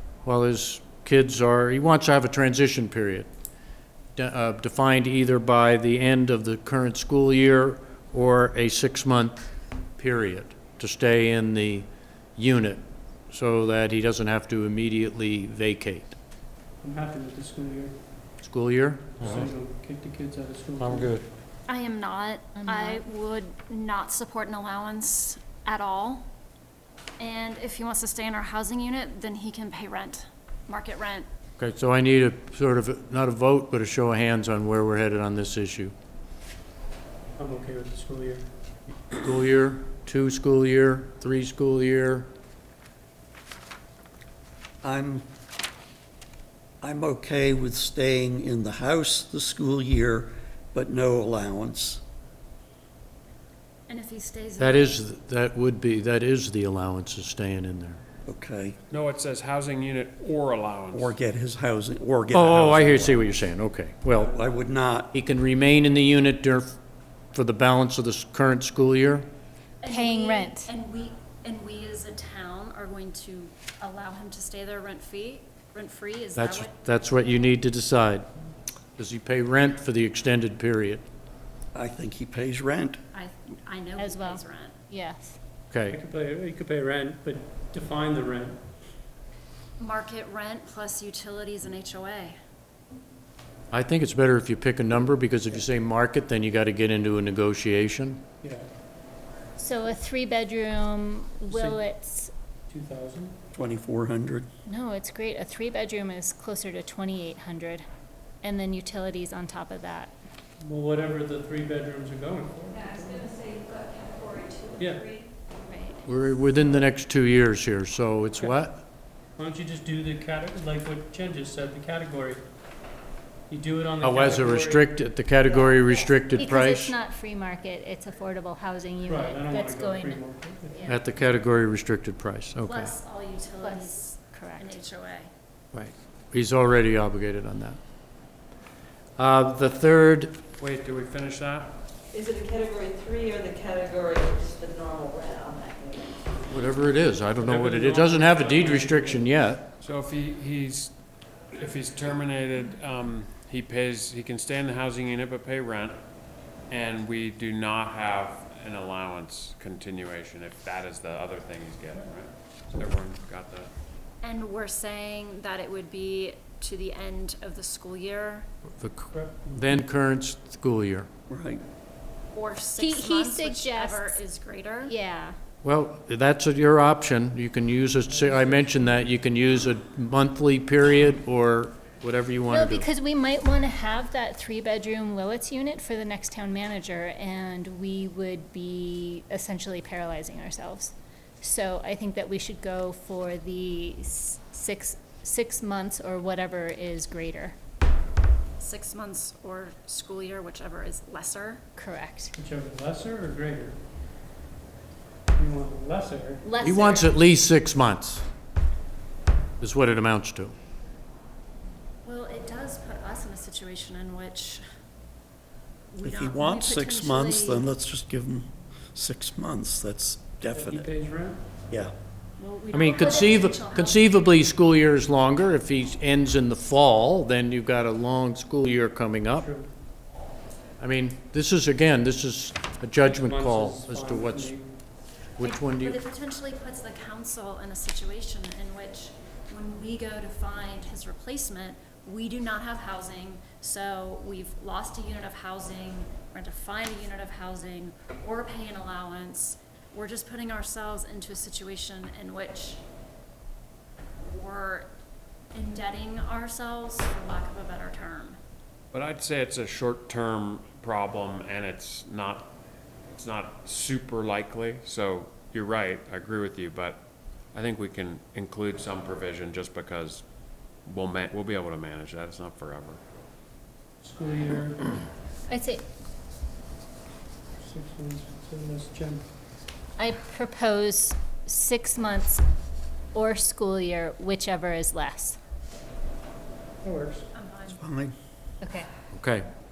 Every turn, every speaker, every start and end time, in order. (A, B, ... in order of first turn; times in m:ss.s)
0:00.2-0:03.3 A
0:04.2-0:09.4 A
0:10.0-0:16.2 A
0:16.8-0:17.9 B
0:18.4-0:19.5 A
0:19.2-0:21.2 B
0:20.8-0:21.2 A
0:21.7-0:26.3 C
0:22.6-0:23.0 D
0:27.2-0:31.3 C
0:31.6-0:35.9 A
0:37.4-0:38.4 B
0:39.1-0:42.3 A
0:44.8-0:45.2 E
0:46.8-0:52.0 E
0:53.9-0:55.0 C
0:54.6-0:58.0 A
0:58.2-0:58.8 E
0:58.9-1:01.1 F
1:00.9-1:03.2 E
1:02.3-1:04.3 A
1:04.1-1:05.1 E
1:05.1-1:06.8 A
1:07.3-1:09.2 A
1:09.8-1:17.5 C
1:09.8-1:10.7 D
1:16.4-1:18.3 A
1:19.0-1:21.1 A
1:21.7-1:23.0 E
1:23.1-1:24.8 C
1:24.0-1:25.4 D
1:25.7-1:26.0 A
1:25.9-1:28.6 B
1:29.8-1:32.3 C
1:33.7-1:38.2 A
1:38.4-1:38.7 B
1:39.6-1:42.3 D
1:41.5-1:41.8 B
1:42.7-1:43.3 B
1:43.5-1:44.5 E
1:44.6-1:47.8 D
1:48.4-1:50.1 D
1:50.6-1:53.4 B
1:53.4-1:54.8 G
1:54.8-1:55.1 B
1:55.5-1:56.0 D
1:56.0-1:58.8 A
1:59.4-2:02.4 B
2:03.5-2:04.9 B
2:04.0-2:06.9 A
2:05.8-2:11.0 D
2:09.0-2:10.9 B
2:10.8-2:12.9 A
2:12.6-2:15.3 C
2:13.6-2:14.8 D
2:15.7-2:17.8 A
2:19.2-2:20.4 A
2:20.6-2:21.7 F
2:22.1-2:26.1 G
2:26.5-2:29.7 A
2:27.5-2:29.3 F
2:29.8-2:30.9 F
2:31.5-2:36.0 F
2:36.7-2:43.7 F
2:44.2-2:48.5 C
2:48.8-2:51.1 A
2:49.1-2:49.7 B
2:51.3-2:51.6 E
2:52.3-2:54.9 C
2:52.8-2:54.2 D
2:54.8-2:55.4 D
2:55.6-3:02.9 A
2:58.2-2:58.5 B
3:02.5-3:17.6 D
3:18.6-3:21.6 C
3:21.8-3:22.3 D
3:22.4-3:23.8 B
3:25.4-3:26.4 B
3:26.4-3:27.1 D
3:26.6-3:28.2 A
3:29.6-3:30.5 A
3:32.0-3:34.6 C
3:35.9-3:37.7 C
3:36.0-3:40.9 E
3:40.5-3:41.4 B
3:42.4-3:44.2 C
3:42.7-3:49.5 A
3:49.4-3:49.7 B
3:50.8-3:54.5 A
3:53.1-3:54.7 B
3:55.4-3:56.0 A
3:55.4-4:12.8 C
4:14.2-4:14.9 C
4:15.5-4:18.4 C
4:18.9-4:22.5 F
4:23.1-4:27.0 F
4:27.5-4:30.2 F
4:30.8-4:33.0 F
4:34.0-4:35.0 B
4:35.5-4:35.8 D
4:37.6-4:39.3 B
4:40.0-4:42.4 D
4:43.1-4:45.4 D
4:46.8-4:47.3 B
4:47.3-4:47.8 C
4:47.6-4:48.1 E
4:48.6-4:48.9 D
4:49.1-4:49.4 A